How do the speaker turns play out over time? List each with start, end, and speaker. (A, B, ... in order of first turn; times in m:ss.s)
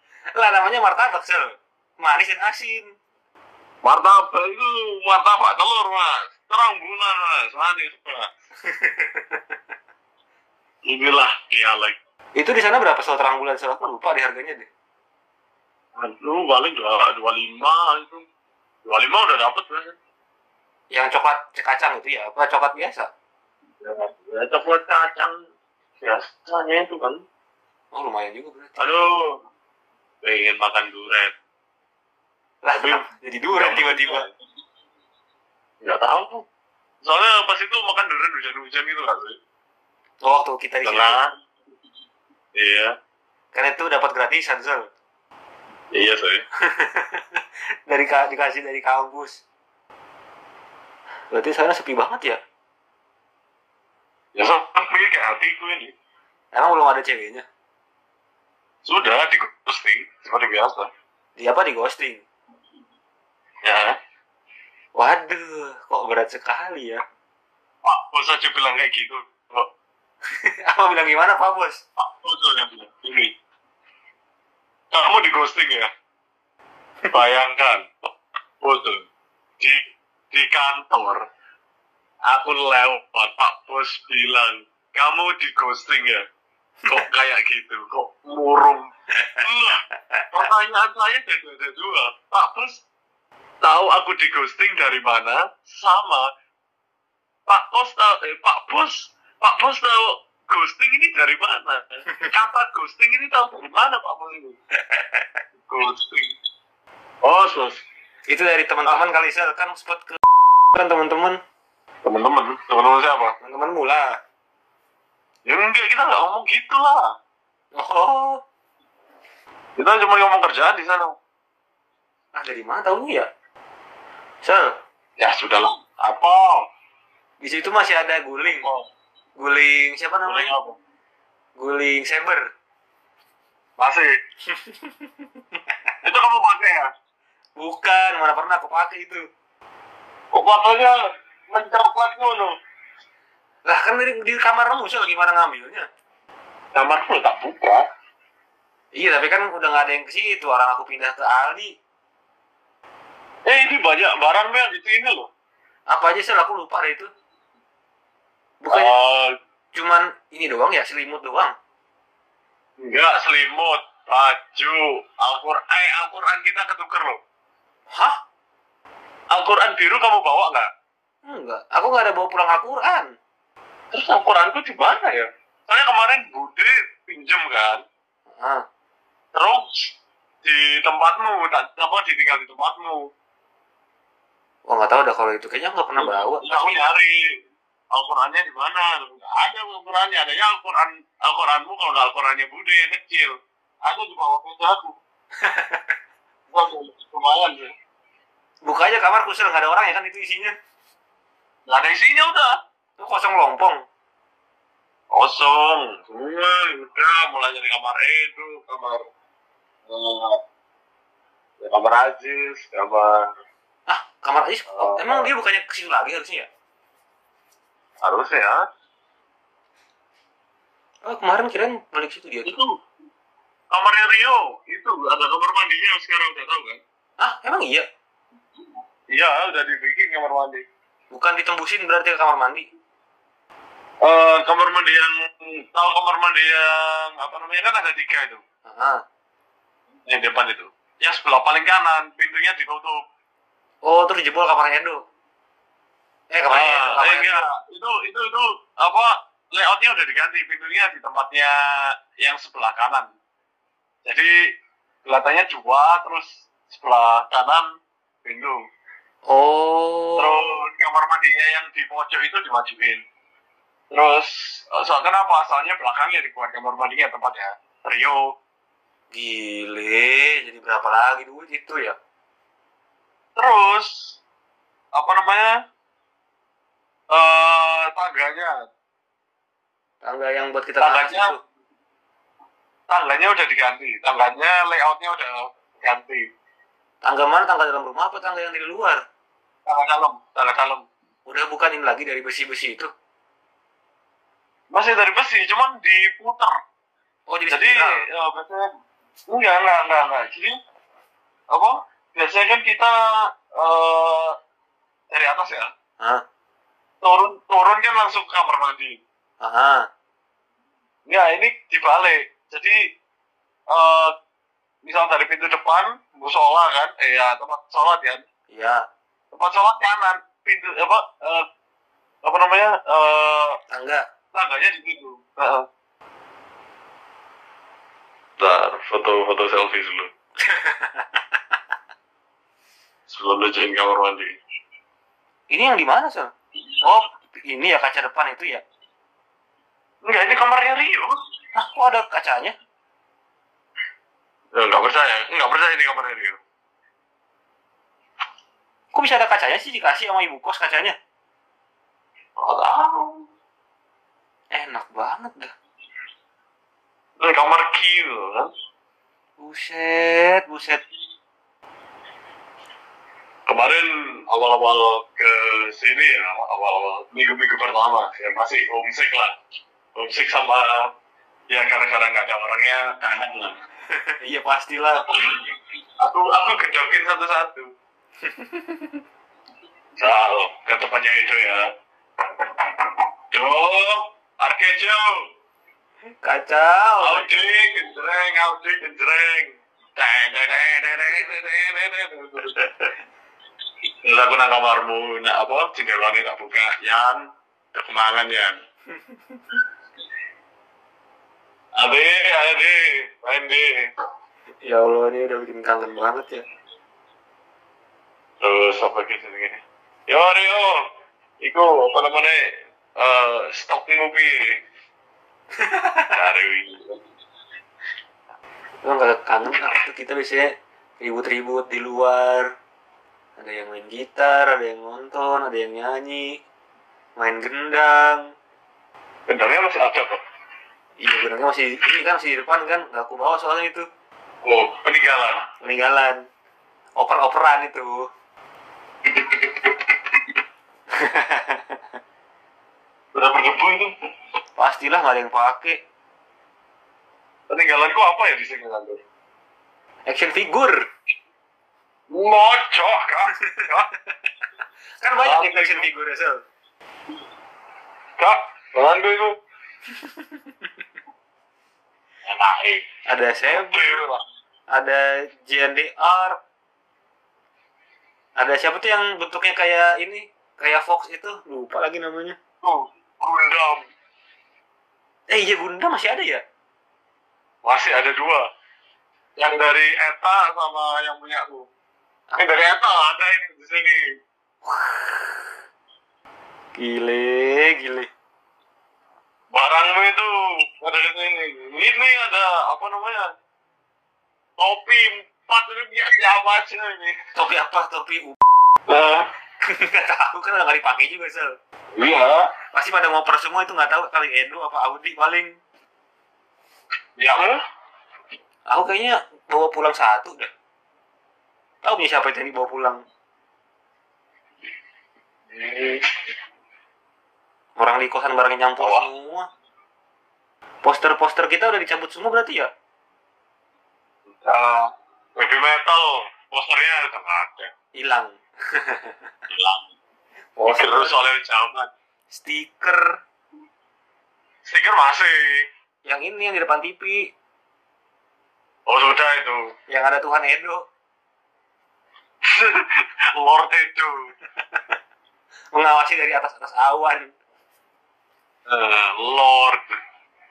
0:00.3-0:02.8 A
0:03.8-0:08.3 B
0:08.6-0:09.5 A
0:10.9-0:12.0 B
0:12.4-0:14.7 A
0:16.0-0:18.2 B
0:18.8-0:19.9 B
0:20.9-0:23.1 A
0:23.8-0:25.4 B
0:26.0-0:27.2 B
0:27.9-0:28.9 A
0:28.8-0:29.3 B
0:30.2-0:31.3 B
0:32.6-0:34.2 A
0:32.7-0:34.3 B
0:35.8-0:36.4 B
0:37.0-0:39.4 B
0:40.2-0:41.2 A
0:40.8-0:41.3 B
0:42.5-0:42.9 B
0:43.5-0:44.9 A
0:45.9-0:46.4 B
0:46.6-0:49.4 A
0:51.3-0:52.4 A
0:54.4-0:55.9 B
0:56.5-0:57.4 A
0:58.8-1:00.9 B
1:01.4-1:02.2 A
1:03.6-1:04.0 B
1:05.0-1:07.0 A
1:07.8-1:09.6 B
1:10.3-1:11.8 A
1:12.0-1:13.3 B
1:14.9-1:15.9 B
1:17.1-1:17.9 B
1:18.6-1:19.0 B
1:19.6-1:21.2 B
1:22.3-1:26.2 B
1:26.9-1:32.8 B
1:29.1-1:29.4 A
1:30.1-1:30.4 A
1:33.6-1:36.3 B
1:37.5-1:44.6 B
1:44.8-1:45.4 A
1:45.7-1:46.3 B
1:47.2-1:47.8 B
1:48.3-1:50.2 A
1:50.7-1:51.4 A
1:52.0-1:53.3 B
1:53.4-1:54.1 A
1:55.5-1:57.0 B
1:57.8-1:58.4 A
1:59.8-2:01.1 B
2:02.3-2:03.3 A
2:04.4-2:04.7 A
2:05.2-2:06.6 B
2:07.4-2:08.6 A
2:08.6-2:08.8 B
2:09.4-2:10.5 A
2:10.2-2:10.8 B
2:11.6-2:12.4 A
2:13.8-2:14.2 B
2:14.5-2:15.6 A
2:16.0-2:16.8 B
2:17.6-2:19.2 A
2:20.3-2:20.9 B
2:21.5-2:22.5 B
2:23.6-2:25.8 A
2:26.8-2:27.8 B
2:29.0-2:31.7 A
2:33.5-2:35.3 B
2:35.9-2:37.1 A
2:38.6-2:38.9 A
2:38.7-2:39.3 B
2:39.7-2:41.5 A
2:42.8-2:47.2 B
2:49.3-2:50.7 B
2:51.2-2:53.1 A
2:53.9-2:57.8 B
2:59.3-2:59.9 B
3:00.4-3:03.1 B
3:04.7-3:07.0 A
3:06.0-3:07.2 B
3:07.9-3:13.3 B
3:13.8-3:15.0 B
3:15.4-3:16.0 A
3:16.5-3:17.7 B
3:18.6-3:20.5 A
3:21.7-3:22.5 B
3:23.0-3:23.8 A
3:25.1-3:29.0 B
3:29.9-3:30.4 B
3:31.6-3:33.3 B
3:33.9-3:36.5 A
3:34.8-3:35.3 B
3:38.0-3:38.6 B
3:41.0-3:42.6 A
3:42.4-3:42.8 B
3:43.7-3:46.8 B
3:47.2-3:47.8 A
3:49.1-3:50.6 B
3:51.1-3:52.6 A
3:54.0-3:58.4 B
3:58.7-3:59.0 A
4:00.1-4:03.0 B
4:03.8-4:05.0 A
4:06.3-4:07.4 A
4:06.5-4:13.1 B
4:14.0-4:14.3 B
4:15.1-4:17.7 B
4:18.2-4:18.6 B
4:19.3-4:20.6 A
4:20.2-4:23.0 B
4:23.9-4:28.2 B
4:29.1-4:32.0 A
4:33.4-4:34.2 B
4:34.9-4:35.5 B
4:37.1-4:38.6 B
4:40.0-4:41.4 A
4:40.8-4:41.3 B
4:42.9-4:46.3 B
4:47.0-4:49.0 A
4:49.7-4:50.8 B
4:51.2-4:52.9 A
4:54.7-4:56.6 B
4:57.3-4:58.0 A
4:57.5-4:58.7 B
4:59.3-5:00.6 B
5:01.5-5:04.3 B
5:05.1-5:05.7 B
5:07.0-5:09.0 B
5:09.4-5:09.8 A
5:11.1-5:12.8 B
5:13.7-5:14.1 B
5:14.8-5:18.2 B
5:18.5-5:18.8 A
5:19.3-5:21.4 B
5:22.2-5:23.6 B
5:23.7-5:24.0 A
5:24.3-5:25.6 B
5:28.4-5:30.1 B
5:30.4-5:31.2 A
5:33.1-5:34.4 B
5:35.5-5:38.6 A
5:40.0-5:41.1 B
5:41.5-5:42.5 A
5:44.6-5:46.4 B
5:48.9-5:50.9 A
5:52.4-5:53.2 B
5:54.5-5:55.5 A
5:57.2-5:58.5 B
5:59.4-6:00.8 A
6:03.5-6:09.3 B
6:10.0-6:10.9 B
6:11.5-6:13.5 B
6:13.9-6:15.1 A
6:15.1-6:17.7 B
6:18.2-6:19.0 A
6:20.0-6:21.7 B
6:22.4-6:25.2 B
6:26.2-6:27.4 A
6:27.0-6:32.6 B
6:32.6-6:32.9 A
6:34.0-6:37.2 B
6:37.7-6:38.6 B
6:39.0-6:39.4 A
6:41.8-6:43.7 B
6:44.6-6:46.4 A
6:48.4-6:50.8 B
6:51.4-6:52.4 B
6:53.0-6:54.4 B
6:55.6-6:56.1 A
6:56.1-6:57.0 B
6:58.8-7:00.5 A
7:01.0-7:02.5 A
7:03.4-7:06.4 A
7:07.2-7:08.2 A
7:09.3-7:10.2 B
7:11.0-7:13.8 A
7:14.4-7:15.4 B
7:15.6-7:16.2 A
7:17.0-7:18.0 A
7:20.9-7:21.8 A
7:23.1-7:23.9 B
7:24.6-7:25.8 A
7:27.5-7:29.0 B
7:30.1-7:30.8 A
7:32.1-7:33.9 B
7:35.0-7:36.4 A
7:35.2-7:35.9 B
7:38.2-7:39.3 B
7:39.9-7:40.7 A
7:42.2-7:42.8 B
7:43.1-7:44.0 A
7:43.5-7:44.2 B
7:44.7-7:46.4 A
7:48.4-7:52.4 A
7:52.6-7:53.8 B
7:55.3-7:56.4 A
7:57.6-7:58.4 B
7:59.4-8:01.6 B
8:02.4-8:04.1 B
8:04.7-8:05.4 A
8:06.8-8:08.1 A
8:09.5-8:13.2 B
8:14.6-8:17.2 B
8:17.3-8:18.4 A
8:18.9-8:19.3 B
8:19.6-8:21.5 A
8:22.0-8:22.4 B
8:22.7-8:25.5 A
8:27.2-8:27.6 B
8:28.7-8:30.5 A
8:31.8-8:33.0 A
8:35.5-8:36.1 B
8:37.8-8:39.5 A
8:38.8-8:39.0 B
8:40.8-8:42.7 A
8:44.4-8:47.7 B
8:48.0-8:49.2 A
8:49.5-8:49.8 B
8:50.6-8:51.2 A
8:50.7-8:51.9 B
8:52.3-8:53.2 A
8:54.6-8:55.7 B
8:56.0-8:57.2 A
8:58.9-8:59.7 B
8:59.9-9:00.8 A
9:02.4-9:04.1 B
9:05.7-9:07.3 A
9:08.7-9:10.0 B